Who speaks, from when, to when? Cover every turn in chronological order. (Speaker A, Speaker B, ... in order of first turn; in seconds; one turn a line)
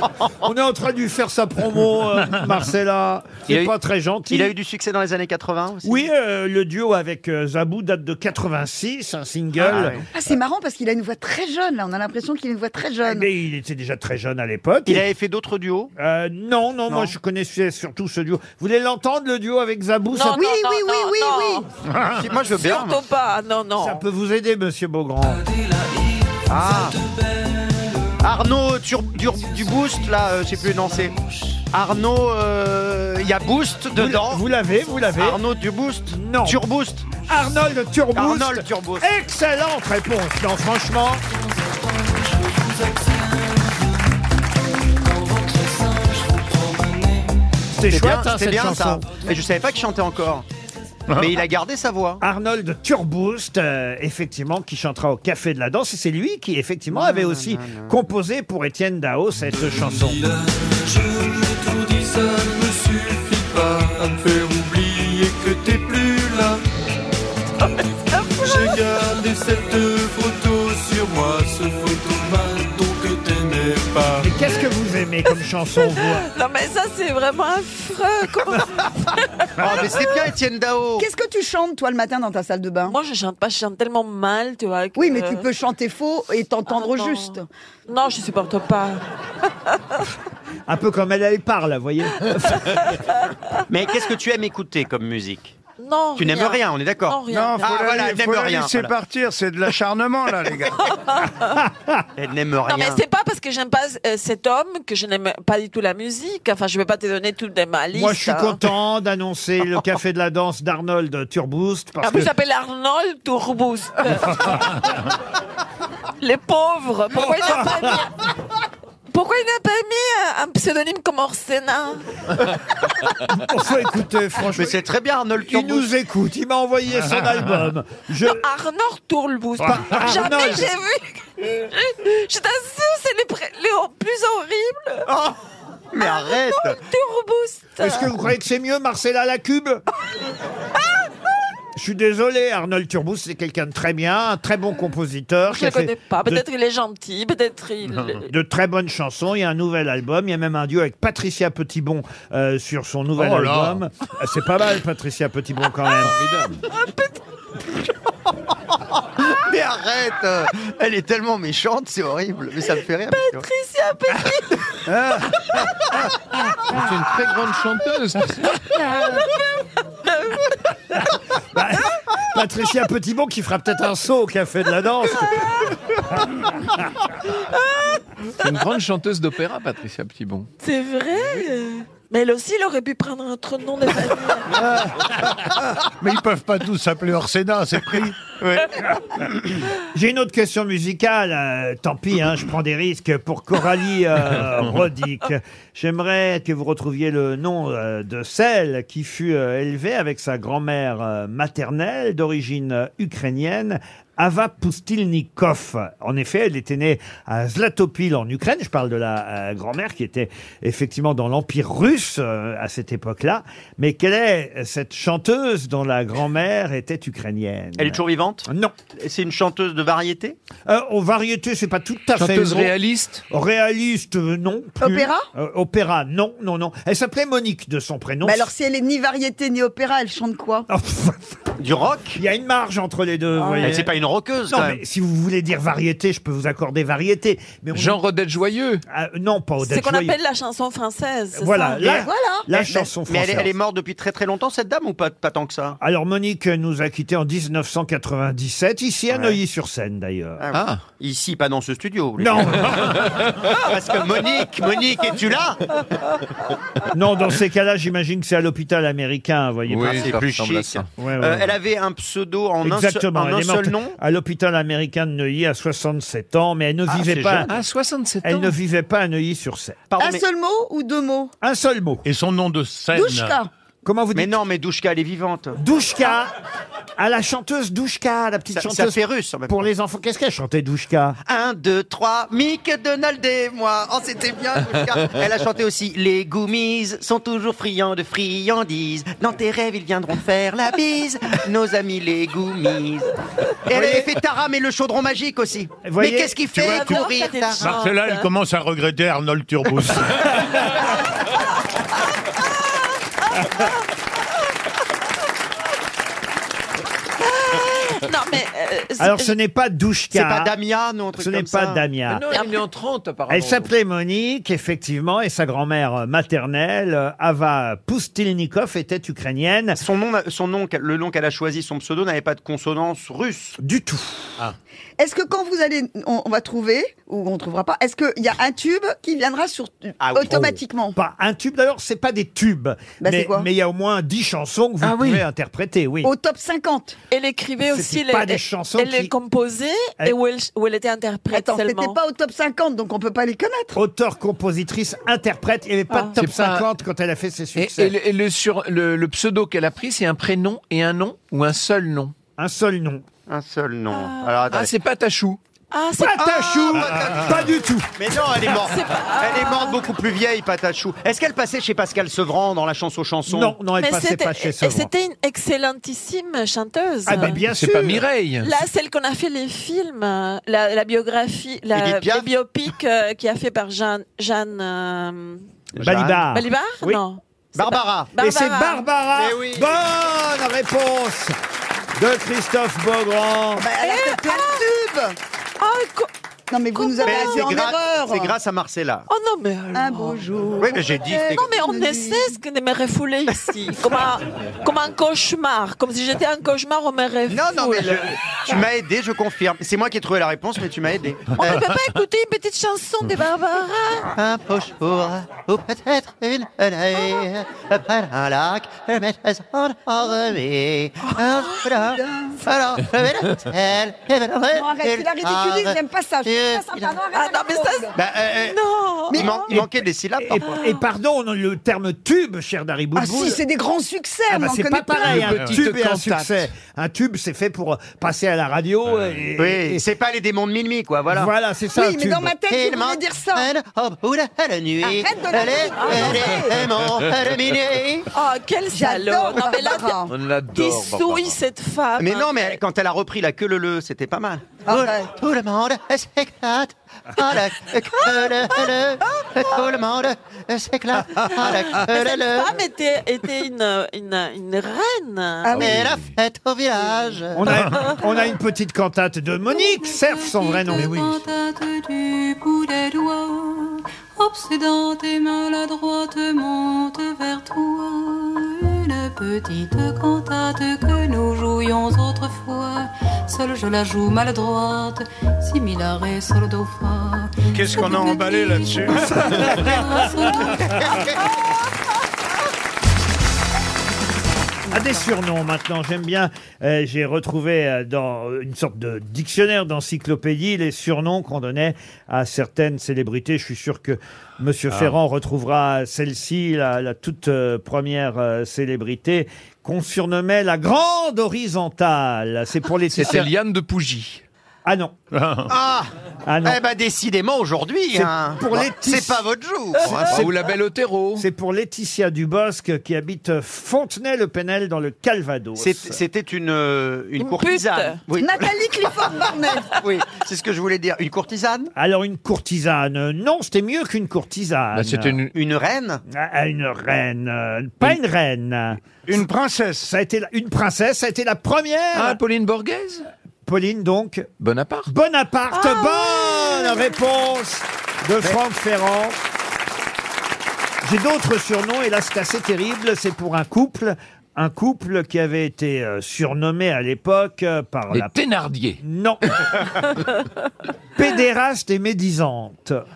Speaker A: 0.4-4.5
Speaker B: 3.5-3.7
Speaker B: 4.3-6.1
Speaker A: 5.8-10.0
Speaker B: 9.6-10.1
Speaker C: 10.1-13.3
Speaker A: 13.1-15.1
Speaker B: 14.9-15.9
Speaker A: 16.0-20.4
Speaker B: 16.9-17.1
Speaker D: 20.1-21.7
Speaker C: 20.2-21.6
Speaker E: 21.9-22.2
Speaker B: 22.1-23.0
Speaker D: 22.4-24.0
Speaker A: 23.8-25.4
Speaker F: 25.7-27.9
Speaker B: 26.5-27.0
Speaker B: 28.2-31.2
Speaker B: 31.7-34.5
Speaker A: 33.9-35.4
Speaker B: 35.2-37.1
Speaker A: 36.1-36.6
Speaker A: 37.3-41.2
Speaker B: 38.1-39.1
Speaker F: 41.7-43.9
Speaker F: 45.0-47.5
Speaker A: 47.7-49.1
Speaker B: 47.9-50.5
Speaker E: 51.1-51.4
Speaker B: 51.2-52.2
Speaker A: 52.2-60.3
Speaker B: 56.9-58.0
Speaker F: 59.5-66.6
Speaker D: 67.6-68.8
Speaker F: 68.4-74.3
Speaker A: 74.2-76.3
Speaker D: 75.8-80.1
Speaker B: 79.6-81.1
Speaker C: 81.0-83.0
Speaker D: 82.9-85.5
Speaker C: 85.0-87.5
Speaker D: 86.7-89.0
Speaker A: 90.7-92.9
Speaker D: 92.6-93.0
Speaker B: 93.7-95.6
Speaker D: 95.8-97.7
Speaker B: 96.2-98.9
Speaker G: 97.3-100.8
Speaker D: 100.9-101.6
Speaker A: 101.6-102.0
Speaker B: 102.2-103.0
Speaker D: 102.6-108.6
Speaker A: 107.9-112.3
Speaker D: 112.0-114.7
Speaker D: 116.2-118.2
Speaker A: 117.2-117.7
Speaker D: 119.1-122.0
Speaker A: 123.3-124.8
Speaker B: 124.5-125.9
Speaker A: 125.5-128.4
Speaker E: 127.0-127.6
Speaker D: 128.2-135.1
Speaker A: 129.6-130.7
Speaker B: 135.1-135.4
Speaker B: 135.9-136.8
Speaker D: 136.0-138.1
Speaker A: 137.8-139.8
Speaker A: 141.8-146.4
Speaker D: 145.5-148.3
Speaker A: 148.3-156.2
Speaker E: 153.2-153.8
Speaker H: 156.0-156.6
Speaker D: 156.7-157.2
Speaker B: 159.2-163.5
Speaker D: 162.7-164.8
Speaker H: 166.7-168.5
Speaker D: 168.7-169.4
Speaker D: 170.0-170.6
Speaker A: 171.5-175.4
Speaker D: 177.5-177.9
Speaker H: 178.4-180.5
Speaker D: 180.6-184.7
Speaker E: 186.0-188.2
Speaker B: 188.4-188.7
Speaker A: 189.9-218.7
Speaker B: 217.8-220.4
Speaker A: 220.7-222.8
Speaker H: 222.1-223.2
Speaker A: 223.3-228.5
Speaker C: 224.8-225.3
Speaker C: 228.2-230.7
Speaker A: 230.7-231.3
Speaker B: 231.6-232.2
Speaker A: 232.2-233.9
Speaker C: 233.4-233.7
Speaker B: 233.6-234.8
Speaker A: 234.5-238.0
Speaker H: 237.7-238.8
Speaker A: 238.9-240.2
Speaker D: 239.6-241.9
Speaker A: 241.3-243.5
Speaker C: 241.8-242.5
Speaker B: 242.6-245.8
Speaker A: 245.8-250.4
Speaker B: 249.1-249.4
Speaker B: 250.4-253.0
Speaker H: 250.5-250.8
Speaker A: 252.2-253.0
Speaker B: 253.5-255.6
Speaker A: 256.9-260.1
Speaker H: 259.7-260.9
Speaker B: 259.9-264.0
Speaker A: 261.0-261.5
Speaker A: 262.6-267.5
Speaker B: 266.9-267.6
Speaker H: 267.5-268.6
Speaker A: 268.2-269.8
Speaker B: 269.9-270.2
Speaker C: 270.0-271.3
Speaker A: 271.4-272.0
Speaker E: 272.0-273.4
Speaker C: 272.9-273.5
Speaker A: 273.9-274.4
Speaker B: 274.1-275.6
Speaker A: 275.6-276.3
Speaker A: 277.0-281.2
Speaker B: 278.5-279.6
Speaker B: 281.3-293.1
Speaker B: 293.7-297.8
Speaker A: 293.7-294.1
Speaker A: 295.8-296.4
Speaker E: 296.6-296.9
Speaker D: 296.6-298.3
Speaker E: 297.6-300.4
Speaker D: 303.3-303.8
Speaker D: 307.2-309.3
Speaker A: 309.0-310.6
Speaker B: 310.1-311.8
Speaker A: 311.2-312.2
Speaker H: 312.1-313.7
Speaker D: 312.3-312.6
Speaker A: 313.3-319.8
Speaker B: 319.8-323.6
Speaker A: 323.6-324.3
Speaker C: 325.0-330.9
Speaker B: 330.0-330.5
Speaker A: 330.3-336.1
Speaker C: 333.0-333.5
Speaker C: 336.0-337.0
Speaker D: 337.1-342.0
Speaker A: 337.7-339.1
Speaker C: 341.3-343.8
Speaker A: 343.7-348.0
Speaker H: 346.2-346.7
Speaker H: 347.6-352.1
Speaker A: 352.4-353.0
Speaker B: 353.3-354.7
Speaker D: 353.9-354.5
Speaker H: 354.5-355.4
Speaker D: 355.7-356.8
Speaker A: 356.0-357.9
Speaker B: 356.2-363.6
Speaker D: 358.4-359.9
Speaker A: 363.3-364.9
Speaker D: 363.7-367.4
Speaker A: 367.1-368.1
Speaker H: 367.4-368.5
Speaker D: 368.4-375.4
Speaker B: 371.7-372.3
Speaker B: 375.8-376.2
Speaker A: 375.8-377.0
Speaker D: 376.3-378.9
Speaker B: 377.6-378.1
Speaker A: 378.2-381.4
Speaker B: 379.1-379.8
Speaker A: 382.0-383.7
Speaker C: 383.6-385.2
Speaker D: 383.8-384.7
Speaker D: 385.6-386.1
Speaker C: 386.5-388.3
Speaker D: 386.7-387.5
Speaker B: 387.0-389.1
Speaker D: 389.1-390.2
Speaker C: 389.7-392.4
Speaker B: 390.6-391.4
Speaker D: 391.3-398.1
Speaker B: 397.3-401.6
Speaker D: 401.3-404.1
Speaker B: 404.1-417.0
Speaker D: 411.1-411.6
Speaker C: 411.9-412.4
Speaker C: 414.5-417.9
Speaker D: 417.1-419.5
Speaker B: 417.9-418.6
Speaker B: 419.1-420.5
Speaker A: 419.5-423.4
Speaker D: 420.4-420.8
Speaker C: 423.0-425.4
Speaker A: 424.3-429.8
Speaker H: 425.1-426.5
Speaker E: 425.3-425.6
Speaker B: 429.4-431.3
Speaker A: 431.1-432.3
Speaker C: 431.8-433.5
Speaker B: 432.5-438.1
Speaker C: 434.8-436.5
Speaker D: 435.7-436.5
Speaker D: 438.1-442.6
Speaker C: 438.7-440.1
Speaker H: 440.1-441.4
Speaker B: 442.0-452.6
Speaker C: 444.7-445.1
Speaker D: 451.2-455.8
Speaker B: 455.5-457.6
Speaker H: 455.6-456.1
Speaker A: 457.4-460.9
Speaker I: 459.5-481.1
Speaker H: 460.8-461.2
Speaker G: 477.5-479.7
Speaker B: 480.6-481.1
Speaker A: 484.7-503.3
Speaker H: 502.9-504.2
Speaker A: 504.6-504.9
Speaker E: 505.1-505.5
Speaker B: 505.5-505.9
Speaker A: 506.3-506.6
Speaker B: 506.4-510.3
Speaker A: 507.9-509.2
Speaker H: 509.9-511.3
Speaker A: 511.2-516.0
Speaker B: 515.6-518.5
Speaker D: 517.2-518.0
Speaker C: 518.2-519.7
Speaker B: 519.8-521.7
Speaker A: 521.8-525.2
Speaker H: 524.7-525.3
Speaker B: 525.3-526.0
Speaker A: 526.1-528.9
Speaker G: 529.1-529.9
Speaker A: 529.8-532.2
Speaker H: 531.9-533.1
Speaker A: 533.5-534.3
Speaker H: 534.4-534.9
Speaker A: 534.9-539.2
Speaker D: 535.5-536.9
Speaker A: 540.8-548.2
Speaker H: 547.9-548.8
Speaker A: 548.8-549.4
Speaker A: 551.0-552.8